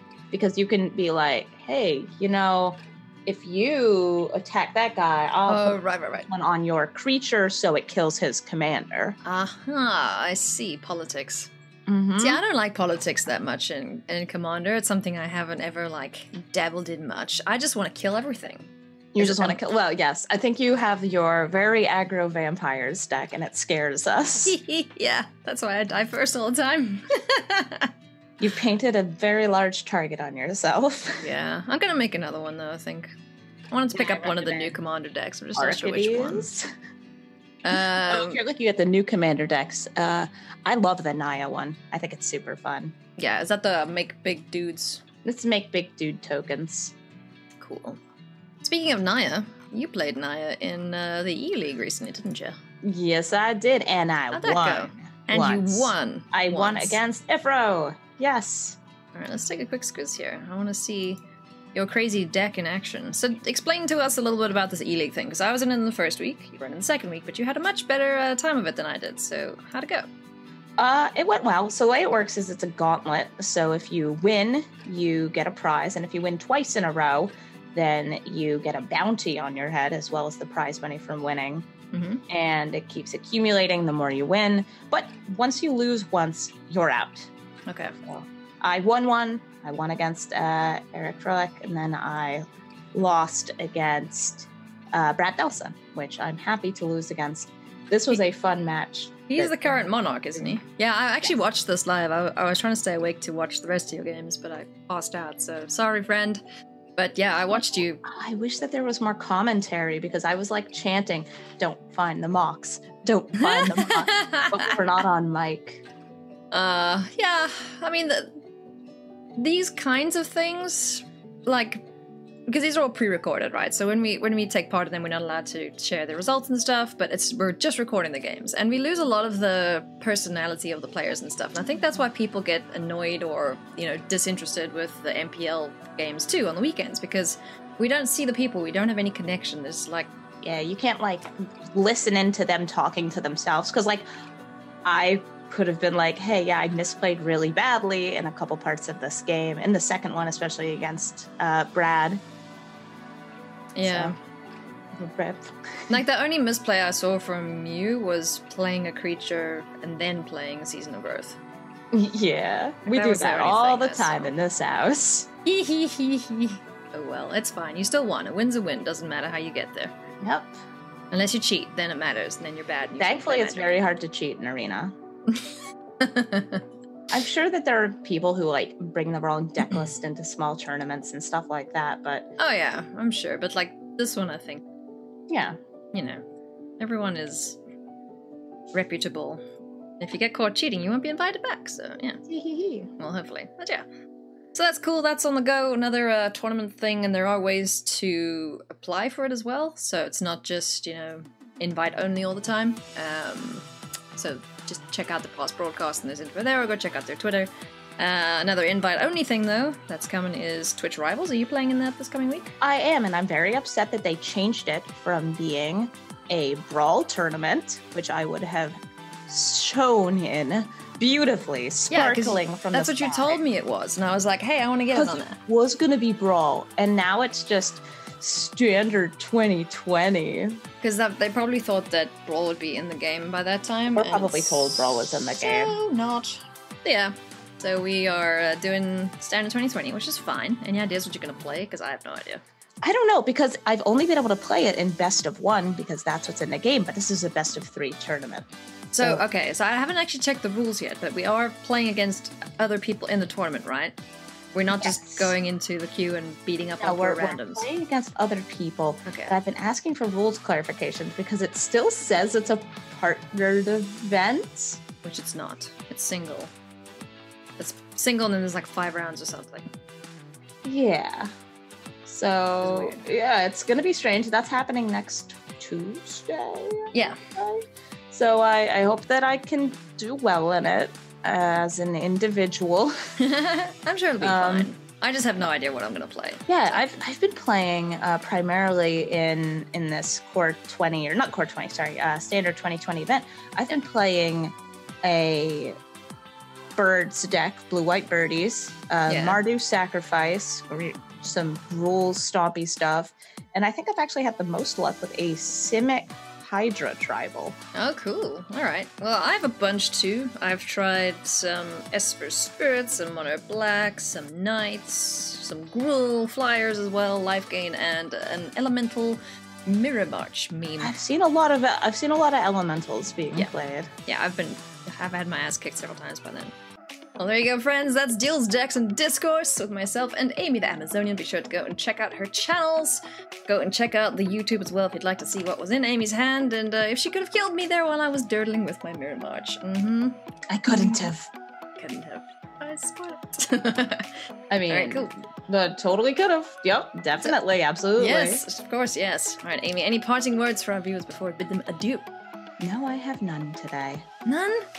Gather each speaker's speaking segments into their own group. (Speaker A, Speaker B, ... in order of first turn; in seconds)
Speaker A: 0.3-9.2, 11.9-12.4, 19.1-24.6, 28.4-31.3, 33.9-34.8, 35.5-36.7, 37.7-43.0, 45.2-46.9, 52.8-58.8, 70.8-81.7, 82.3-87.3, 88.0-100.5, 107.5-115.8, 140.4-144.1, 144.8-152.2, 153.8-154.1, 155.0-155.9, 161.9-165.3, 170.2-170.6, 173.0-174.9, 177.1-182.3, 185.3-185.6, 192.3-192.9, 212.6-218.8, 219.3-223.4, 224.9-230.6, 233.9-235.8, 242.8-249.2, 254.8-255.3, 256.8-264.8, 270.6-271.3, 272.1-282.9, 284.2-284.7, 286.5-295.8, 296.8-307.6, 320.8-323.9, 340.5-341.3, 344.5-348.4, 352.6-354.1
Speaker B: 5.5-6.3, 9.2-11.5, 12.2-19.6, 24.4-27.9, 31.2-33.1, 33.7-36.5, 37.6-38.4, 43.2-45.0, 47.6-48.0, 48.6-52.6, 54.3-57.0, 59.1-61.2, 61.8-70.1, 81.9-82.2, 87.7-88.0, 99.3-106.4, 107.0-108.0, 113.4-114.8, 116.5-118.4, 119.4-121.8, 122.5-140.1, 153.8-154.2, 155.9-161.4, 162.9-164.3, 165.4-170.0, 171.1-173.7, 176.0-176.7, 182.4-184.6, 185.9-186.2, 186.8-187.6, 188.7-189.4, 190.0-192.2, 193.0-193.8, 194.5-212.6, 221.9-225.4, 230.8-242.4, 248.9-254.0, 254.5-257.7, 259.1-259.4, 265.0-266.5, 267.6-269.7, 272.6-273.0, 276.9-277.2, 283.2-286.8, 299.1-299.4, 307.8-320.9, 324.1-326.5, 327.2-341.1, 341.8-344.1, 344.7-345.1, 348.0-352.1, 354.2-354.7